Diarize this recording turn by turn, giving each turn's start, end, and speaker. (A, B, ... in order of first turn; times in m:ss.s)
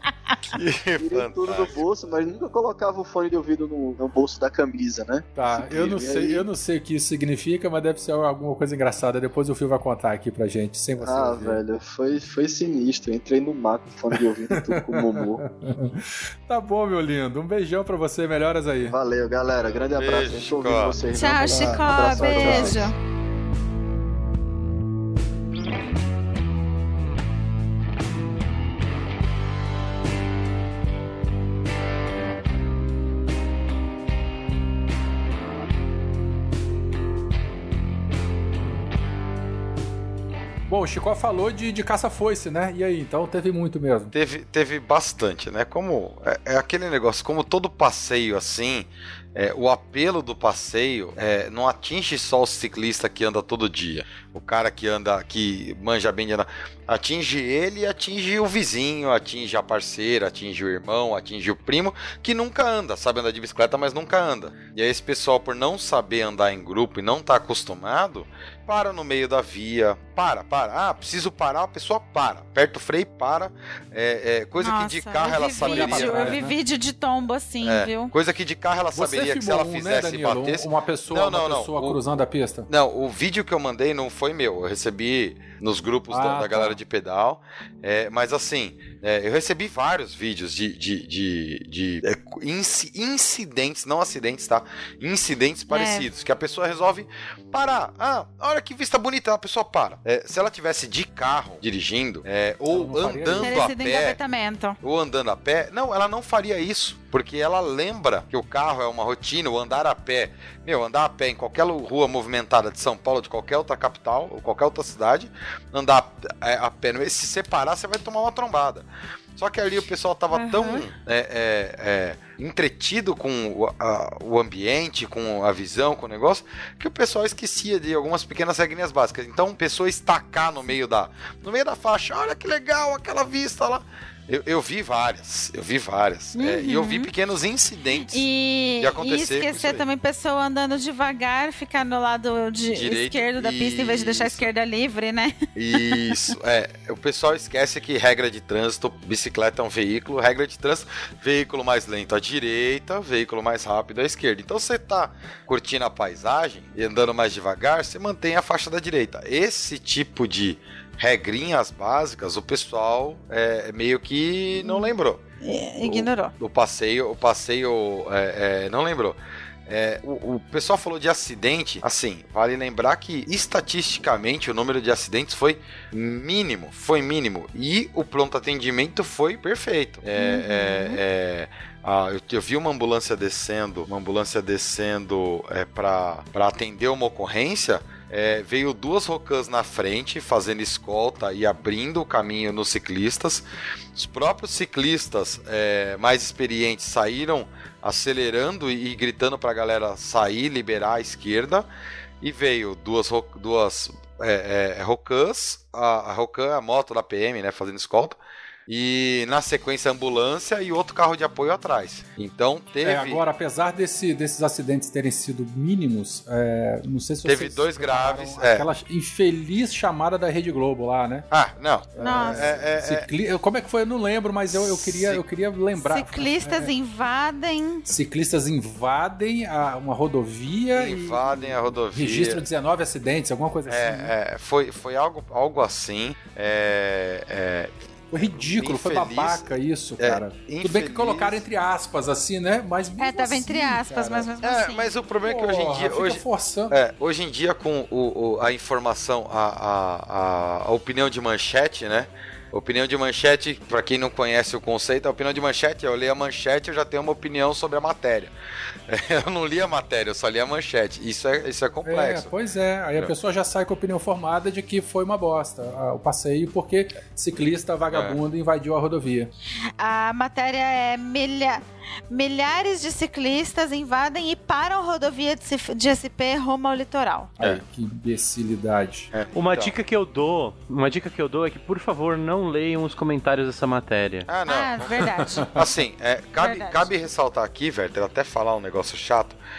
0:00.5-0:01.8 A
0:01.0-0:06.5 B
0:05.4-0:11.6 C
0:11.0-0:15.4 B
0:14.6-0:19.0 C
0:18.9-0:22.9 B
0:20.0-0:21.0 A
0:21.1-0:23.0 D
0:22.4-0:22.7 C
0:40.7-0:44.1 C
0:44.1-1:16.4 A
1:14.6-1:18.1 D
1:15.6-1:16.6 C
1:17.6-1:22.0 A
1:18.9-1:22.7 C
1:22.7-1:44.2 A
1:26.1-1:26.8 C
1:35.7-1:36.1 D
1:42.7-1:43.7 C
1:43.4-1:44.8 D
1:44.8-2:18.2 A
2:00.3-2:00.8 D
2:16.4-2:17.1 D
2:18.0-2:26.1 D
2:18.8-2:19.8 A
2:22.7-2:24.5 A
2:25.6-2:45.2 A
2:44.6-2:44.9 D
2:45.4-2:46.3 D
2:45.8-3:21.7 A
3:00.2-3:01.0 D
3:22.2-3:33.2 A
3:32.8-3:41.3 C
3:37.2-3:38.7 A
3:41.3-3:43.1 A
3:42.0-3:46.7 C
3:42.0-3:42.5 D
3:44.5-3:45.2 A
3:45.8-3:47.8 D
3:47.9-3:54.1 C
3:50.7-3:52.4 A
3:53.7-4:01.4 A
3:58.1-4:04.3 C
4:03.0-4:04.9 D
4:04.4-4:18.3 A
4:05.2-4:06.8 C
4:18.9-4:22.3 A
4:21.9-4:29.3 C
4:27.9-4:28.2 A
4:29.8-4:37.3 D
4:37.4-4:39.1 C
4:39.1-4:39.8 A
4:39.4-4:44.3 E
4:44.3-4:49.4 A
4:44.5-4:45.6 D
4:46.4-4:46.9 D